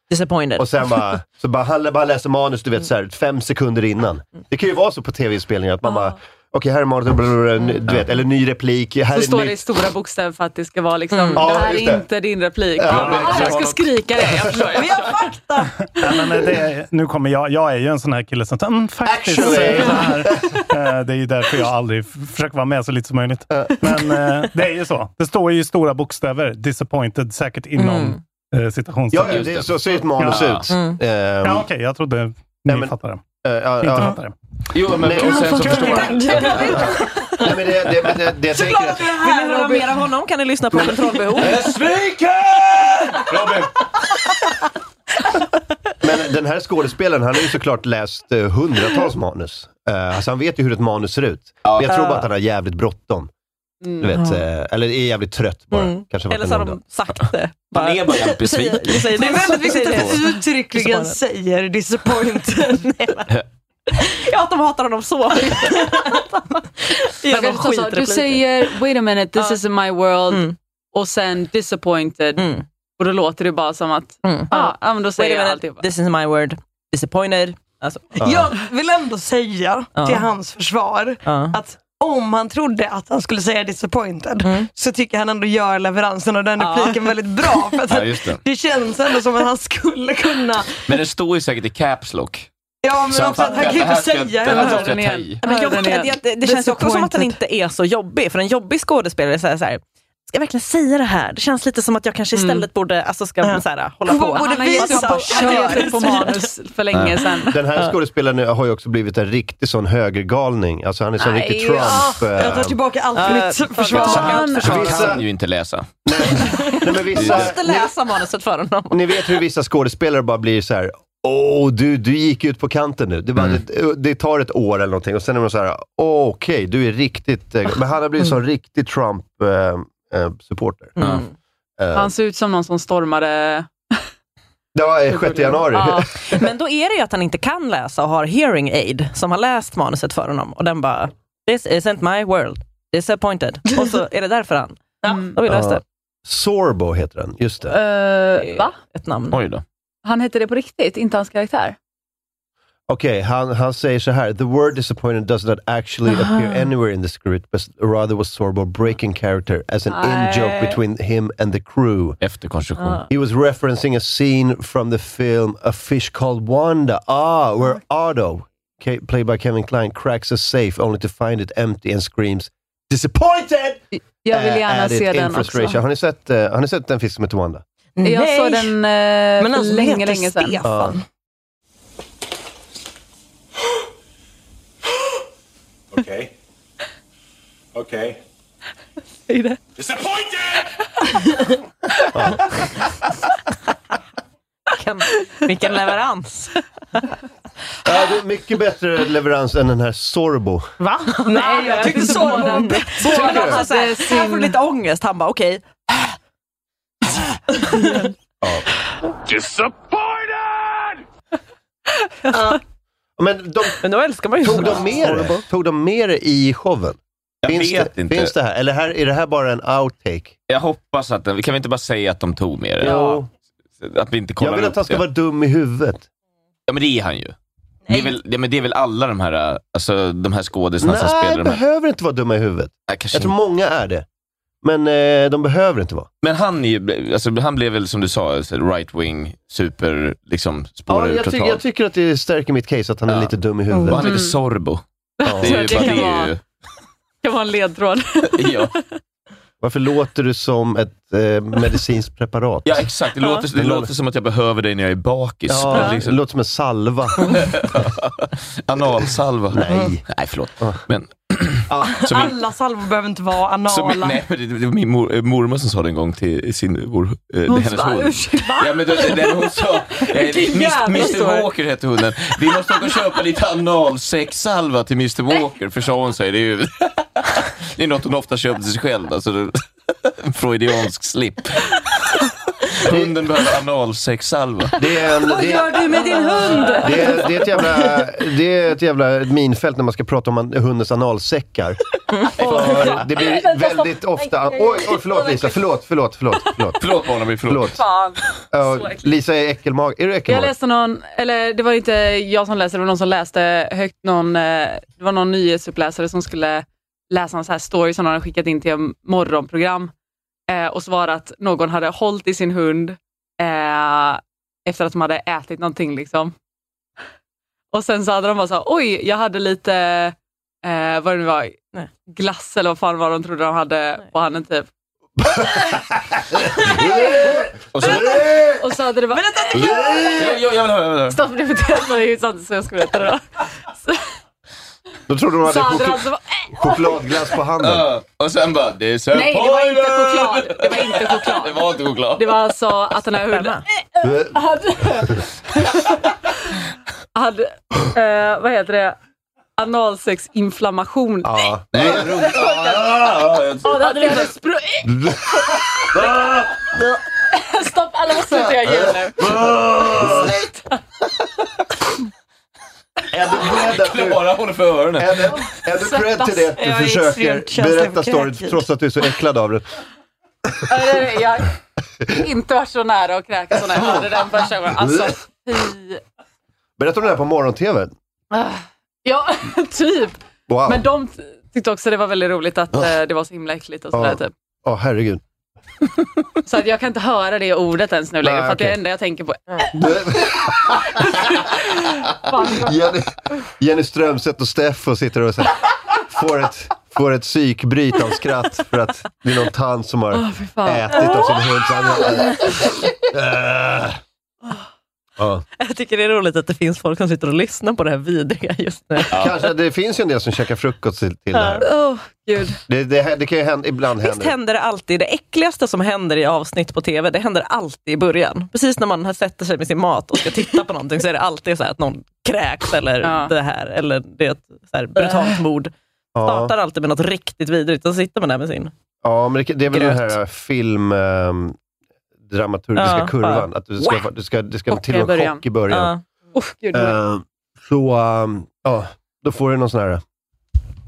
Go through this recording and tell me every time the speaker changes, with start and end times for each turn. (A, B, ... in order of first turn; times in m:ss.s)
0:00.1-0:00.9 A
0:00.6-0:09.6 B
0:09.1-0:15.2 C
0:11.1-0:11.4 A
0:11.3-0:12.0 B
0:12.8-0:13.5 B
0:12.8-0:15.0 D
0:14.7-0:15.8 E
0:16.0-0:29.6 F
0:19.0-0:20.7 B
0:23.5-0:23.8 B
0:27.8-0:28.2 A
0:29.1-0:31.7 B
0:29.2-0:30.7 D
0:30.2-0:30.6 F
0:30.7-0:31.0 A
0:31.4-0:33.2 F
0:32.6-0:34.2 B
0:33.8-0:34.3 F
0:34.7-0:37.0 D
0:34.9-0:36.1 B
0:35.2-0:37.6 E
0:36.6-0:39.2 B
0:38.5-0:40.0 E
0:39.2-0:41.6 A
0:41.4-0:43.7 D
0:46.0-0:53.3 B
0:51.6-0:52.0 D
0:51.9-0:52.2 A
0:54.0-0:56.8 B
0:55.7-1:01.2 A
0:57.7-1:00.1 D
0:59.1-1:03.3 E
1:02.9-1:03.2 A
1:04.0-1:06.4 A
1:07.2-1:08.7 A
1:07.3-1:15.8 C
1:10.3-1:10.5 A
1:12.4-1:12.6 A
1:14.2-1:18.2 A
1:18.2-1:30.8 E
1:19.9-1:20.2 A
1:21.2-1:21.6 A
1:24.4-1:24.7 A
1:26.6-1:27.1 A
1:27.9-1:28.4 D
1:30.9-1:32.5 D
1:32.8-1:35.0 E
1:33.1-1:35.4 D
1:34.5-1:36.1 C
1:35.4-1:46.3 A
1:36.4-1:37.4 E
1:42.3-1:42.6 C
1:43.4-1:46.4 E
1:44.4-1:47.6 C
1:46.9-1:47.2 D
1:47.5-1:52.8 B
1:51.2-1:52.2 C
1:51.8-1:55.0 E
1:53.1-1:55.0 A
1:53.9-1:55.0 C
1:53.9-1:55.9 D
1:54.6-1:55.2 B
1:56.0-1:57.9 B
1:57.0-1:59.2 A
1:57.1-1:57.5 D
1:58.9-2:10.9 B
2:11.0-2:11.3 A
2:11.0-2:11.2 D
2:11.8-2:12.1 B
2:11.9-2:13.7 C
2:14.7-2:16.1 B
2:15.1-2:16.1 C
2:16.3-2:25.8 A
2:25.0-2:25.3 E
2:25.4-2:27.8 B
2:27.7-2:28.7 C
2:28.4-2:29.4 A
2:29.3-2:29.6 D
2:30.0-2:31.8 C
2:32.9-2:42.2 B
2:39.9-2:40.8 C
2:42.2-2:43.0 D
2:42.8-2:43.0 A
2:43.1-2:57.6 B
2:53.9-2:55.8 C
2:58.0-2:58.8 E
2:58.0-3:00.6 C
2:59.4-3:01.0 E
3:00.6-3:01.0 B
3:05.9-3:06.3 G
3:07.7-3:08.2 G
3:09.3-3:09.6 A
3:09.8-3:10.7 G
3:12.1-3:12.5 B
3:14.7-3:16.6 A
3:17.8-3:20.7 B
3:20.8-3:23.6 E
3:21.3-3:26.1 A
3:21.3-3:24.6 C
3:23.2-3:23.6 B
3:27.6-3:28.0 A
3:29.2-3:31.0 G
3:32.3-3:32.6 E
3:33.2-3:33.8 B
3:33.8-3:35.4 A
3:34.4-3:40.4 B
3:37.4-3:38.3 D
3:40.5-3:42.9 D
3:42.8-3:43.3 B
3:42.8-3:43.2 A
3:43.8-3:45.0 D
3:44.4-3:46.0 B
3:46.7-3:47.3 D
3:47.9-3:51.6 D
3:50.8-3:54.0 B
3:52.9-3:53.3 D
3:54.6-3:56.1 B
3:56.2-4:01.6 D
4:00.9-4:04.1 B
4:03.9-4:04.8 D
4:04.0-4:04.3 C
4:05.2-4:06.3 C
4:05.2-4:06.0 B
4:05.4-4:06.4 D
4:07.2-4:08.8 C
4:08.4-4:08.7 D
4:09.6-4:12.8 B
4:12.6-4:16.2 D
4:13.5-4:13.9 B
4:15.5-4:17.5 B
4:17.2-4:22.4 D
4:19.5-4:20.0 B
4:19.7-4:19.9 E
4:22.0-4:24.2 E
4:23.7-4:41.8 D
4:27.5-4:29.4 C
4:30.0-4:31.5 C
4:42.8-4:44.7 D
4:42.8-4:43.1 B
4:44.8-4:45.9 B
4:45.3-4:47.6 A
4:45.9-4:47.1 C
4:46.7-4:51.8 B
4:52.4-4:56.8 B
4:52.4-4:55.5 C
4:52.5-4:52.9 D
4:56.8-4:57.8 D
4:57.5-4:57.8 B
4:57.8-4:59.0 C
4:58.5-5:00.5 B
5:00.3-5:09.9 C
5:10.5-5:16.3 C
5:17.7-5:24.7 C
5:25.3-5:28.6 B
5:27.7-5:28.5 D
5:27.9-5:29.8 C
5:29.1-5:30.4 E
5:29.6-5:30.2 B
5:30.1-5:31.2 D
5:31.1-5:34.0 C
5:35.1-5:37.9 B
5:35.4-5:37.0 C
5:37.6-5:42.4 D
5:39.1-5:45.9 C
5:43.3-5:43.6 A
5:44.0-5:45.2 B
5:47.1-5:49.0 C
5:49.6-5:52.9 C
5:51.2-5:52.4 B
5:51.7-5:54.2 D
5:53.6-5:55.0 C
5:54.8-5:55.2 B
5:55.9-5:56.3 B
5:56.7-5:59.4 C
5:58.6-6:00.3 B
5:59.2-6:00.3 D
6:00.1-6:00.7 C
6:03.1-6:04.3 B
6:03.5-6:05.4 D
6:05.0-6:09.7 B
6:05.9-6:06.2 C
6:06.5-6:08.6 E
6:10.7-6:11.5 C
6:12.1-6:16.0 C
6:13.7-6:14.2 B
6:14.7-6:15.1 B
6:16.8-6:17.9 B
6:18.3-6:24.3 C
6:20.5-6:20.9 B
6:23.9-6:25.2 B
6:26.4-6:29.9 C
6:28.2-6:28.8 B
6:29.7-6:31.3 B
6:31.0-6:32.9 C
6:32.4-6:44.0 B
6:40.1-6:41.4 C
6:45.2-6:45.4 B
6:45.6-6:49.2 A
6:49.1-6:51.6 B
6:51.3-6:51.6 A
6:51.6-6:52.6 C
6:52.7-6:54.3 B
6:54.0-7:08.7 A
7:03.0-7:03.3 C
7:05.0-7:05.3 C
7:06.1-7:06.5 B
7:09.0-7:11.6 B
7:09.7-7:10.0 A
7:12.3-7:15.9 B
7:12.8-7:13.5 A
7:14.7-7:15.4 C
7:15.7-7:16.0 A
7:16.3-7:17.0 C
7:16.7-7:20.0 B